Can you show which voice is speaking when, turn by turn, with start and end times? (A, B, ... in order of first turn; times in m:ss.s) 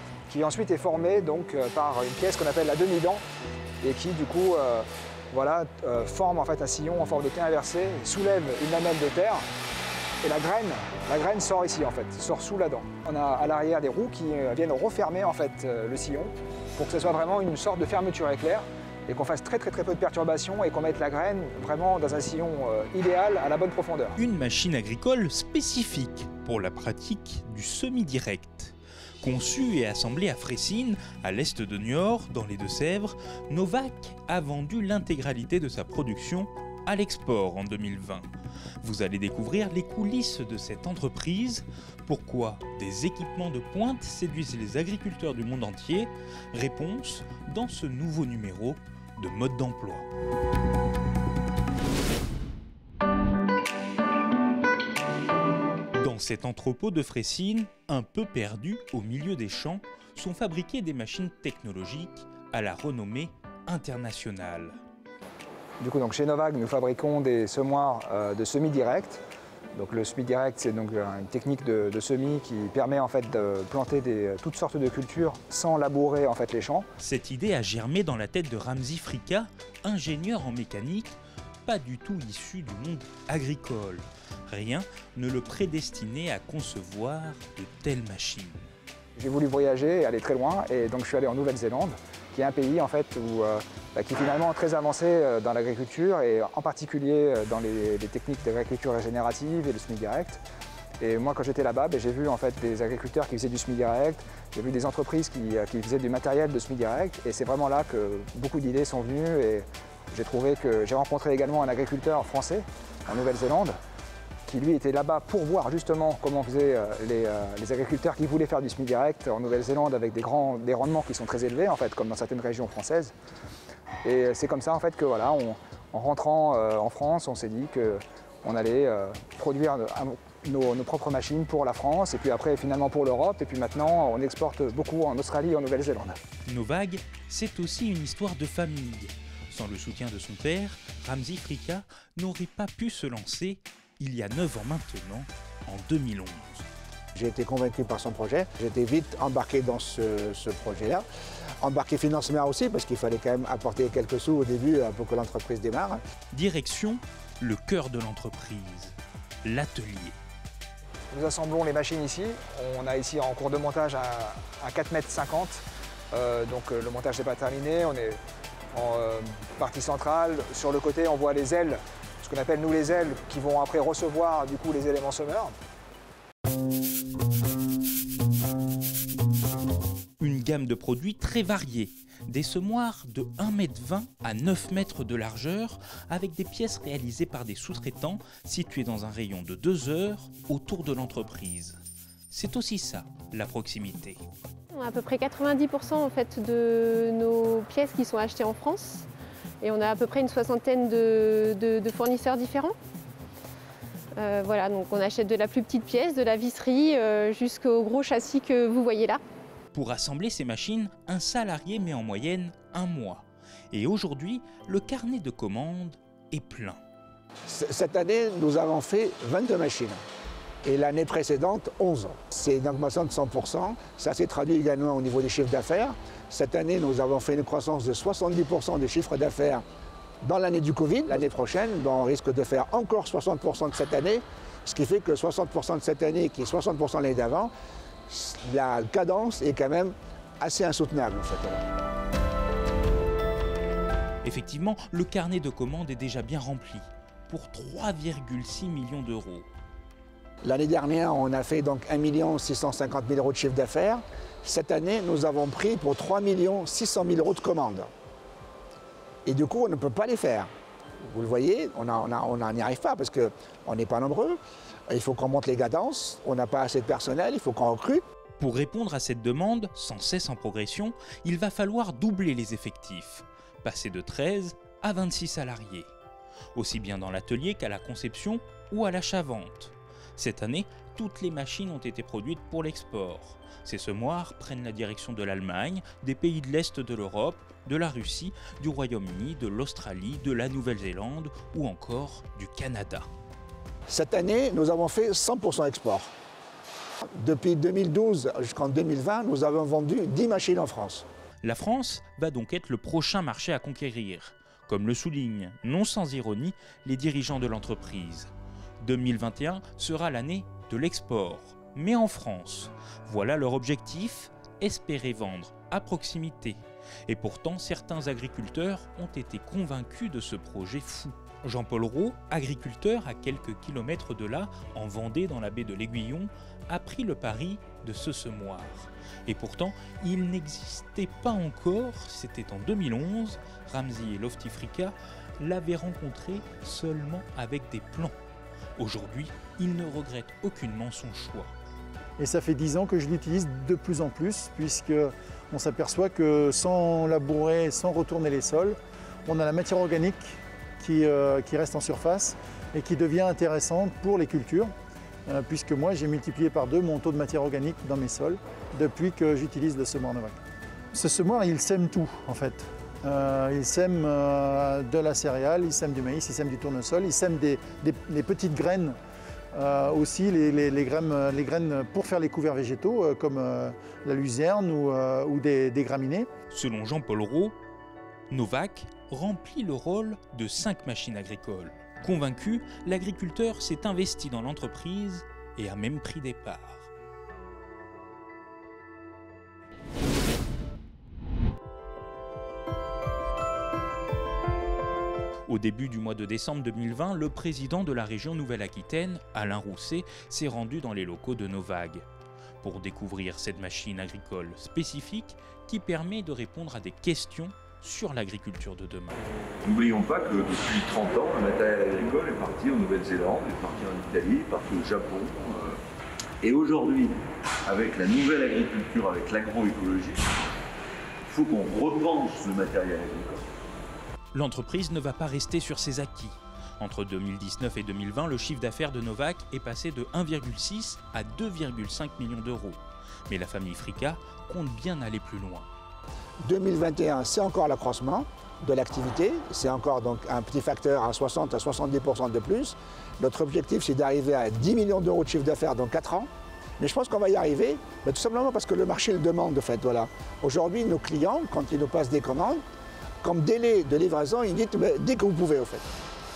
0:00.3-0:03.2 A
0:03.8-0:09.4 A
0:10.2-0:24.2 A
0:24.2-0:38.3 B
0:38.8-0:50.1 B
0:56.0-1:04.8 B
1:05.8-1:09.2 A
1:09.7-1:16.9 A
1:17.0-1:28.6 B
1:29.2-1:40.4 A
1:41.0-1:53.8 A
1:54.5-2:03.1 A
2:04.0-2:16.2 A
2:16.5-2:26.7 B
2:27.1-2:31.0 C
2:31.6-2:36.0 C
2:36.3-2:40.2 B
2:41.1-2:48.2 A
2:48.7-2:55.5 A
3:00.2-3:11.8 B
3:12.3-3:14.2 B
3:14.7-3:19.0 D
3:19.6-3:22.8 D
3:24.2-3:29.2 D
3:29.7-3:36.8 B
3:37.5-3:40.0 C
3:40.6-3:49.6 C
3:50.2-3:57.5 C
3:58.1-4:01.6 C
4:04.2-4:09.5 B
4:10.4-4:17.9 C
4:19.2-4:20.5 C
4:21.0-4:24.4 C
4:24.9-4:28.0 C
4:28.4-4:35.9 B
4:36.5-4:53.1 B
4:53.9-4:56.1 C
4:57.2-5:01.0 C
5:01.4-5:38.2 B
5:38.8-5:41.5 B
5:42.2-5:54.7 E
5:55.3-6:00.4 E
6:00.9-6:09.0 E
6:09.5-6:16.3 E
6:16.5-6:17.5 B
6:18.3-6:26.9 B
6:35.5-6:42.0 B
6:42.6-6:49.2 B
6:49.6-6:55.7 F
6:56.4-7:00.2 F
7:01.3-7:03.4 F
7:04.3-7:15.7 B
7:16.4-7:32.6 C
7:33.2-7:35.9 C